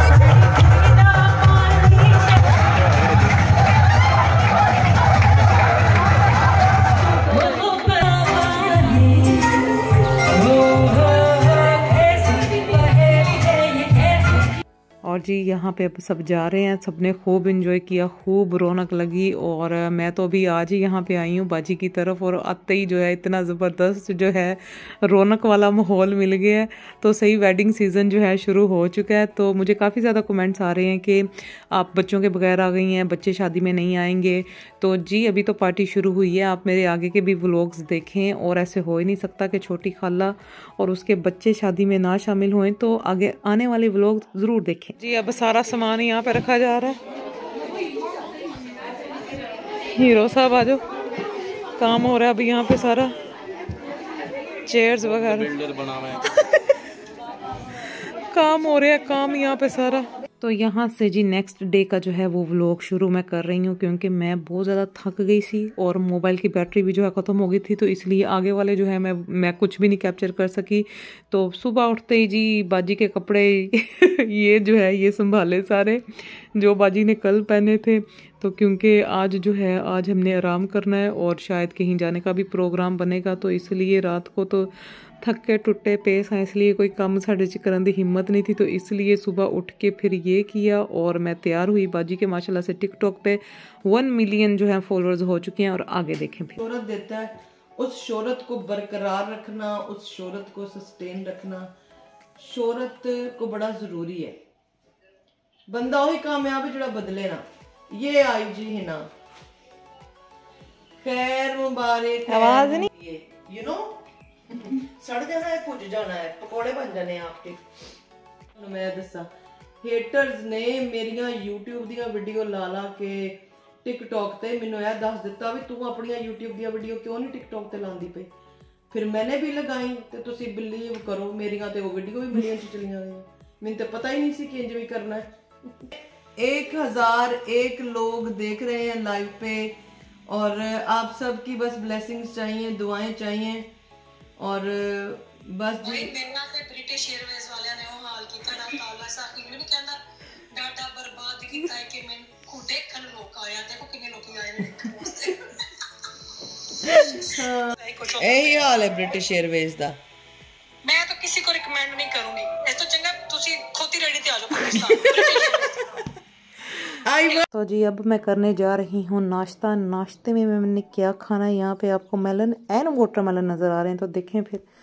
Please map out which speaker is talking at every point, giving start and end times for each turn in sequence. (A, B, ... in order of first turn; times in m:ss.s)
0:00.6-0:02.5 A
0:07.1-0:09.7 A
0:08.2-0:09.0 B
0:10.3-0:14.2 A
0:10.8-0:11.3 B
0:15.0-0:47.0 B
0:49.9-0:50.8 B
0:51.8-0:53.2 B
0:54.7-0:56.8 B
0:57.8-1:36.6 B
1:36.6-1:41.7 C
1:42.4-1:44.4 C
1:45.7-1:49.1 C
1:51.0-1:57.6 C
1:52.3-1:52.9 B
1:58.6-1:59.3 C
1:59.8-2:08.3 C
2:08.9-2:15.3 C
2:15.8-2:23.7 C
2:24.4-2:26.2 C
2:25.8-2:38.8 A
2:36.8-2:40.0 C
2:40.8-2:45.9 A
2:44.6-2:46.0 C
2:46.7-2:47.5 C
2:47.5-2:54.6 B